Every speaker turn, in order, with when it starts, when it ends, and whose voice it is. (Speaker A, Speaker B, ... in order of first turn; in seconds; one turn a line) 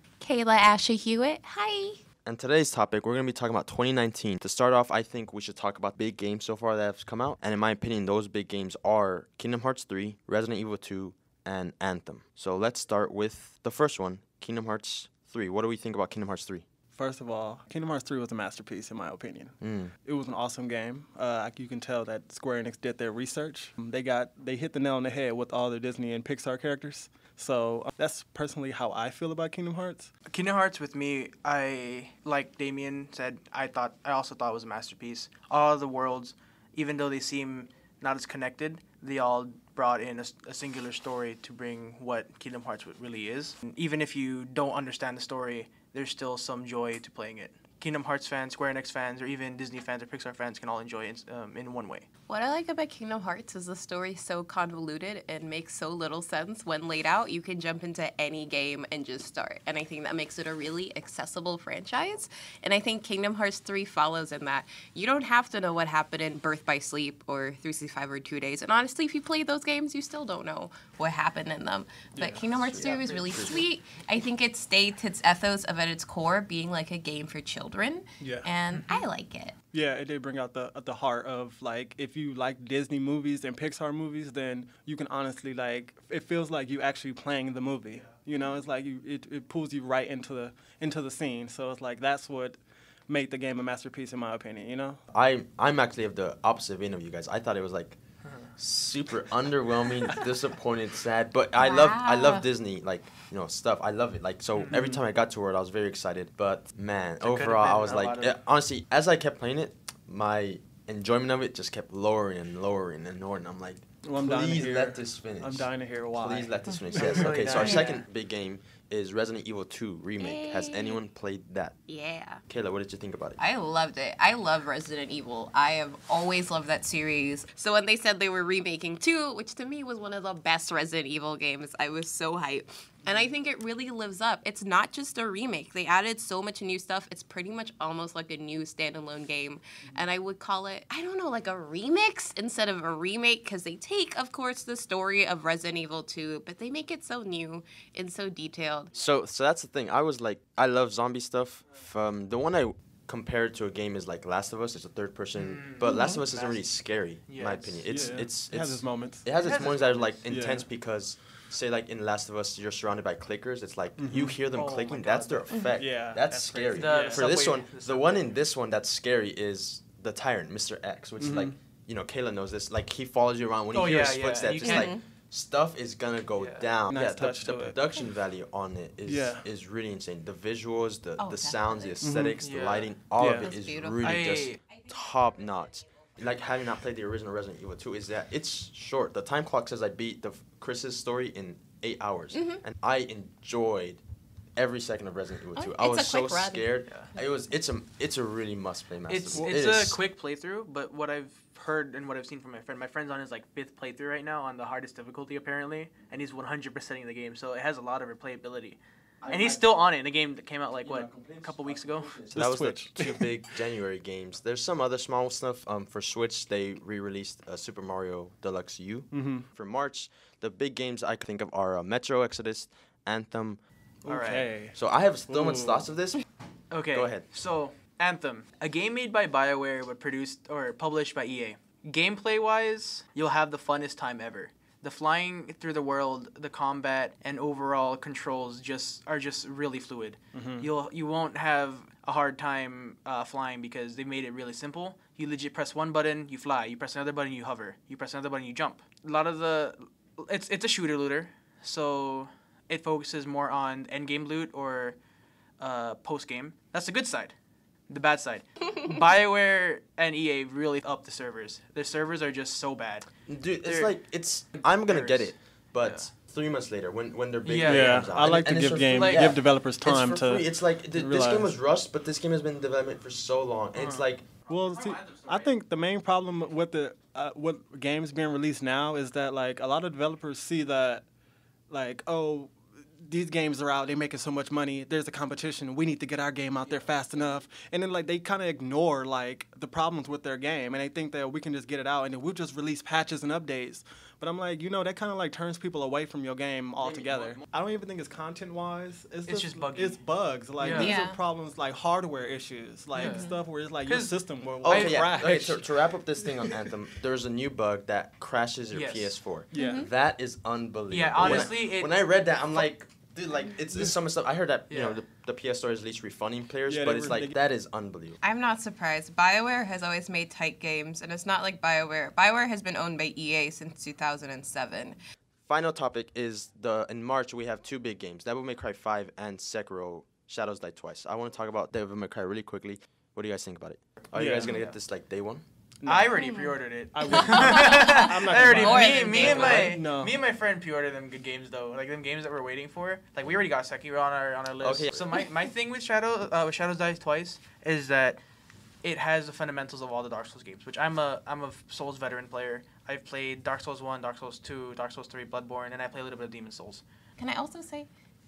Speaker A: 0.2-2.0
Speaker B: 2.2-16.6
Speaker C: 16.9-30.1
Speaker B: 19.6-19.9
Speaker D: 30.3-52.1
Speaker A: 52.3-79.5
Speaker C: 72.2-72.9
Speaker B: 72.7-73.7
Speaker D: 72.9-73.3
Speaker C: 78.2-78.5
Speaker D: 78.7-79.1
Speaker C: 79.7-95.0
Speaker B: 95.1-98.0
Speaker B: 98.5-121.7
Speaker A: 101.6-102.4
Speaker C: 104.7-105.0
Speaker D: 107.2-108.3
Speaker C: 114.0-117.8
Speaker D: 117.0-118.0
Speaker A: 117.5-117.9
Speaker A: 120.2-121.0
Speaker A: 121.9-122.4
Speaker B: 122.5-123.4
Speaker A: 123.4-148.9
Speaker B: 148.9-194.0
Speaker D: 155.3-156.7
Speaker A: 155.8-156.2
Speaker D: 157.2-157.8
Speaker C: 157.8-160.7
Speaker A: 159.4-159.7
Speaker D: 159.5-160.1
Speaker C: 164.0-164.4
Speaker D: 164.5-165.6
Speaker A: 165.5-165.8
Speaker C: 165.7-167.3
Speaker D: 166.4-168.2
Speaker C: 171.2-171.6
Speaker D: 173.7-174.9
Speaker A: 174.6-175.0
Speaker D: 176.3-176.7
Speaker C: 176.9-177.8
Speaker C: 179.1-179.4
Speaker A: 181.2-182.0
Speaker C: 182.0-182.4
Speaker D: 182.4-182.9
Speaker C: 183.2-183.5
Speaker A: 183.4-185.4
Speaker D: 184.0-184.6
Speaker A: 192.3-192.6
Speaker B: 194.6-200.0
Speaker A: 195.5-196.7
Speaker D: 199.1-212.2
Speaker B: 209.2-209.6
Speaker B: 210.8-223.6
Speaker C: 212.3-213.4
Speaker C: 219.1-219.5
Speaker C: 224.0-224.8
Speaker D: 224.1-224.5
Speaker B: 224.7-226.2
Speaker C: 225.3-225.9
Speaker D: 226.7-255.0
Speaker B: 226.9-227.2
Speaker C: 240.3-240.7
Speaker D: 255.6-257.3
Speaker D: 257.9-263.1
Speaker B: 263.2-274.2
Speaker D: 263.6-264.0
Speaker D: 264.5-266.1
Speaker D: 267.4-268.0
Speaker C: 267.7-271.5
Speaker D: 268.9-269.3
Speaker D: 273.7-274.1
Speaker C: 274.5-281.1
Speaker D: 274.8-275.5
Speaker C: 281.7-305.7
Speaker B: 296.8-297.4
Speaker D: 299.3-300.0
Speaker D: 300.6-300.9
Speaker A: 300.7-301.2
Speaker D: 302.9-303.3
Speaker A: 302.9-303.4
Speaker D: 303.8-305.3
Speaker B: 304.6-318.2
Speaker D: 308.7-309.2
Speaker C: 309.5-309.9
Speaker A: 309.6-309.9
Speaker D: 310.9-311.9
Speaker C: 311.2-311.5
Speaker D: 314.7-315.0
Speaker C: 316.7-317.3
Speaker A: 318.2-325.0
Speaker B: 325.4-335.4
Speaker C: 334.1-334.5
Speaker D: 334.4-334.7
Speaker C: 335.8-336.1
Speaker D: 335.9-348.2
Speaker A: 336.1-339.8
Speaker C: 336.9-340.1
Speaker B: 344.6-345.1
Speaker D: 348.8-356.8
Speaker A: 357.2-357.9